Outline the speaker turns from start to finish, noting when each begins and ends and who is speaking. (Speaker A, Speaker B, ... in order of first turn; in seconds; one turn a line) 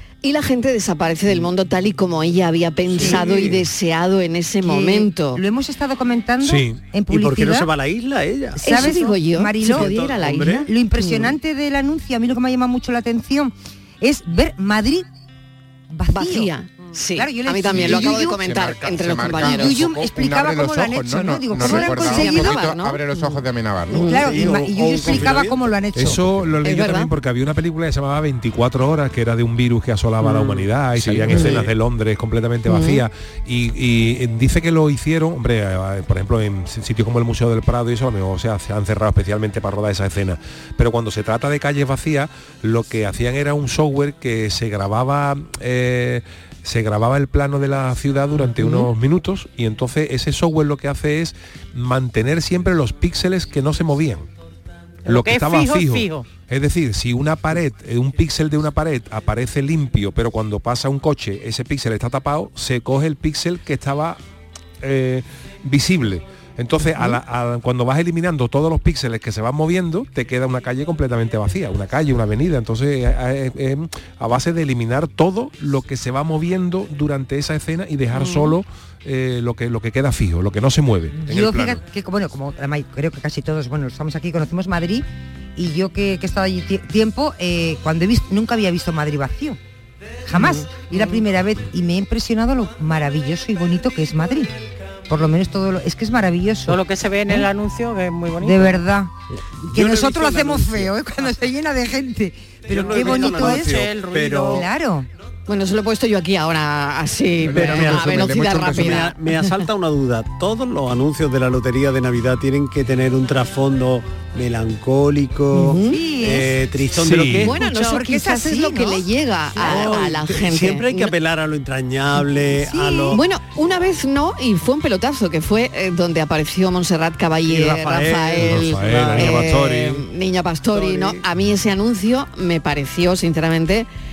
Speaker A: 0.2-5.4
Speaker B: 2.9-3.6
Speaker C: 4.6-7.7
Speaker D: 6.4-6.8
Speaker B: 7.1-8.6
Speaker C: 8.6-9.9
Speaker A: 8.6-11.3
Speaker B: 9.6-10.7
Speaker C: 10.7-15.1
Speaker C: 15.9-16.5
Speaker A: 16.1-19.8
Speaker C: 17.1-18.4
Speaker E: 17.7-24.2
Speaker C: 19.4-22.6
Speaker A: 21.6-23.0
Speaker A: 23.9-24.2
Speaker C: 23.9-26.2
Speaker B: 24.1-25.7
Speaker D: 25.9-54.3
Speaker A: 26.6-27.1
Speaker B: 30.2-30.7
Speaker E: 30.9-31.6
Speaker A: 31.3-31.6
Speaker B: 31.3-31.7
Speaker A: 32.7-33.0
Speaker F: 55.0-56.3
Speaker D: 55.0-64.2
Speaker D: 64.8-81.8
Speaker A: 78.1-78.5
Speaker C: 81.2-89.6
Speaker C: 90.3-94.5
Speaker C: 95.1-97.5
Speaker F: 96.7-98.8
Speaker C: 98.4-99.1
Speaker B: 99.7-101.0
Speaker C: 99.7-103.8
Speaker B: 102.7-104.7
Speaker F: 102.8-104.7
Speaker C: 104.5-105.1
Speaker A: 105.5-109.4
Speaker E: 107.4-109.0
Speaker B: 107.5-117.7
Speaker A: 115.5-116.0
Speaker C: 115.9-116.5
Speaker D: 117.0-117.5
Speaker A: 117.4-121.1
Speaker C: 117.5-120.0
Speaker B: 119.6-123.2
Speaker C: 122.5-123.2
Speaker A: 123.1-133.9
Speaker B: 127.4-129.5
Speaker D: 128.4-130.1
Speaker B: 130.7-131.2